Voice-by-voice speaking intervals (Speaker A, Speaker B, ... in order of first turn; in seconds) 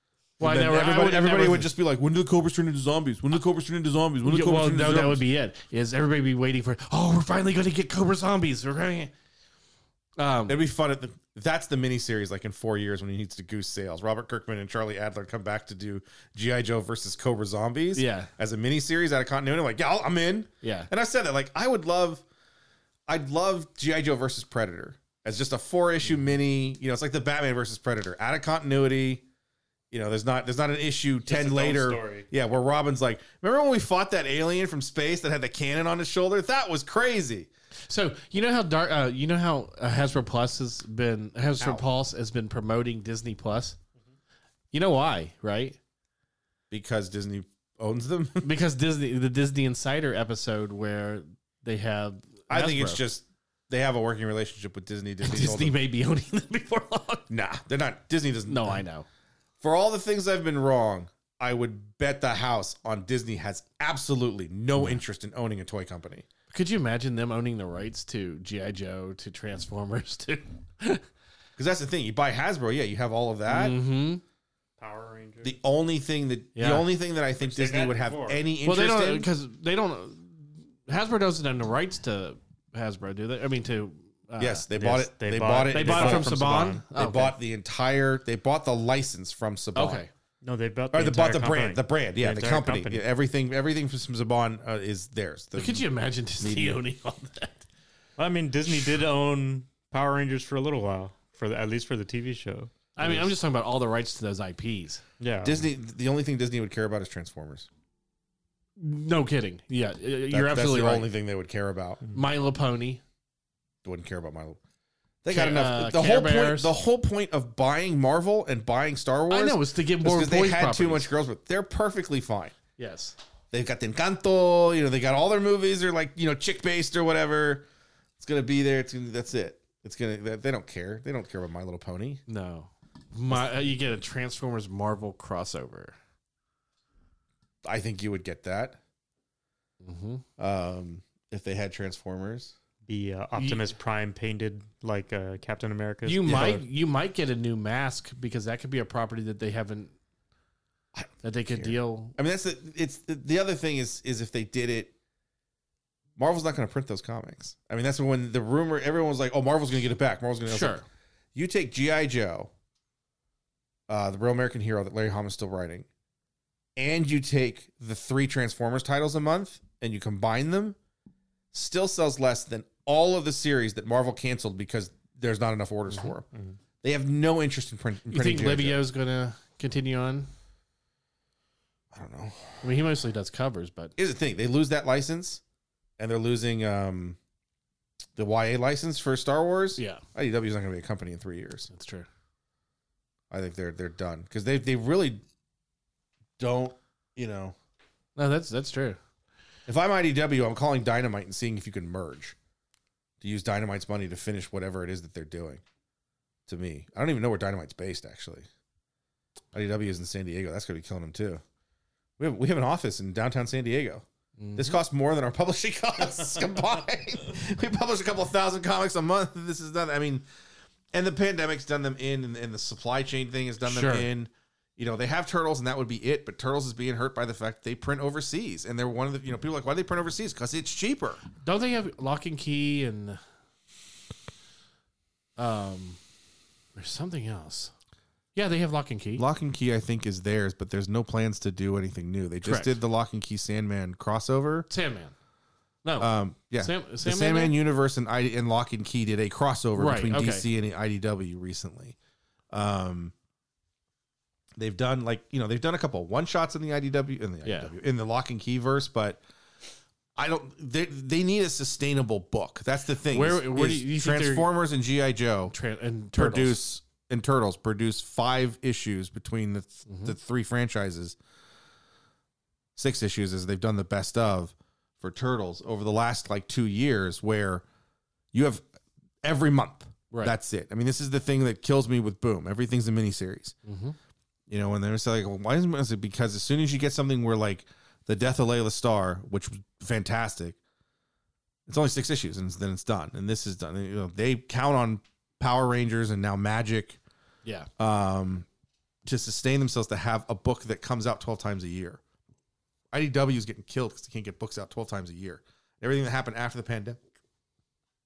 Speaker A: 0.4-1.7, 4.2-9.1, 10.2-10.6, 17.9-18.3, 20.6-20.9, 37.9-43.8, 44.7-45.8, 48.4-53.0, 55.2-57.3, 58.5-59.1, 66.5-71.0, 73.5-74.2, 76.5-76.9, 78.6-84.8, 85.7-87.3, 89.7-90.1, 95.6-97.6, 103.0-105.0, 108.8-111.1, 112.1-113.0, 115.3-116.7, 119.3-121.1, 122.8-123.1, 132.3-135.9, 139.8-140.2, 143.4-143.7, 146.1-149.9, 151.2-152.2, 160.5-160.8, 178.1-180.3, 182.6-183.9, 189.8-190.0, 191.7-192.1, 198.2-199.0, 214.4-214.8, 223.6-224.1, 231.4-233.2, 235.4-236.0, 236.7-237.7, 238.3-239.2, 242.4-242.8, 244.7-245.1, 245.8-247.6, 249.7-250.4, 257.4-257.7, 263.1-264.5, 265.5-266.6, 269.9-270.1, 280.1-280.4, 283.6-283.9
Speaker B: 0.4-5.2, 10.5-22.2, 23.1-29.2, 29.9-37.5, 41.6-41.8, 46.7-48.5, 52.5-55.8, 57.3-58.8, 59.6-66.2, 71.6-73.8, 75.4-79.3, 84.4-90.0, 90.9-95.8, 96.4-96.8, 105.4-107.7, 110.3-112.0, 113.8-114.6, 115.2-122.6, 123.5-127.7, 128.2-132.2, 137.6-138.8, 140.4-142.5, 150.9-154.9, 156.2-160.8, 161.3-162.5, 163.9-165.9, 166.8-170.8, 171.5-176.2, 176.8-178.8, 181.9-182.7, 184.0-185.4, 186.0-187.2, 188.2-191.7, 193.3-195.2, 196.4-197.5, 199.7-202.3, 203.2-205.6, 206.5-208.5, 209.5-211.4, 212.2-220.2, 220.9-231.2, 239.2-244.7, 246.0-251.9, 252.5-253.1, 254.6-259.2, 260.1-265.5, 266.1-271.2, 272.8-277.6, 278.3-278.6, 279.2-283.6, 284.5-290.6, 291.7-297.0, 297.8-298.5, 299.0-302.0, 302.9-307.0
Speaker C: 31.2-32.2, 74.8-75.5, 77.4-78.4, 84.8-86.8, 90.4-93.0, 98.2-103.1, 105.2-105.6, 142.9-146.6